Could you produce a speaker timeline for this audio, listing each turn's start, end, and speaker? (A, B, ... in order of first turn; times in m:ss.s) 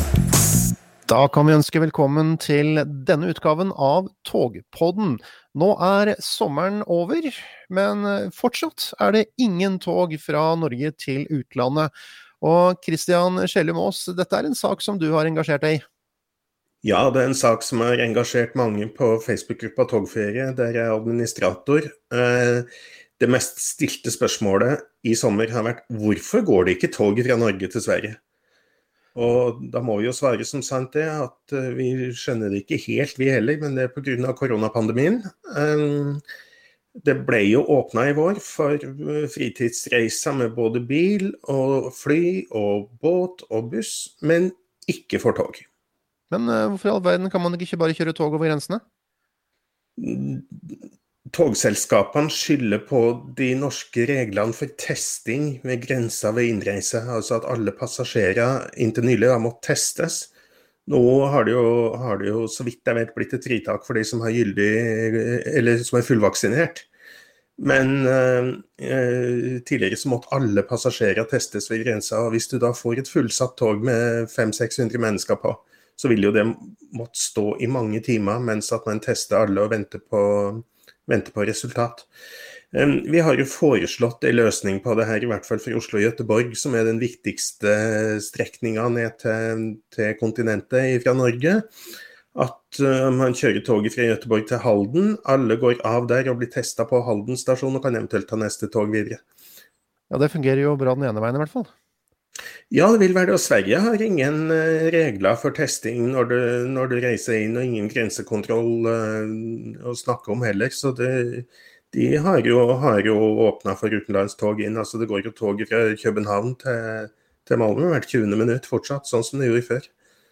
0:01.1-0:15.8 A
0:16.8-0:28.2 B
0:29.1-0:36.2 B
0:37.0-0:45.6 B
0:46.3-0:48.8 A
0:50.0-0:50.8 B
0:51.3-1:00.3 B
1:00.8-1:06.9 B
1:07.6-1:22.1 B
1:22.7-1:31.6 B
1:32.3-1:39.2 B
1:40.1-1:41.7 A
1:42.7-1:59.9 B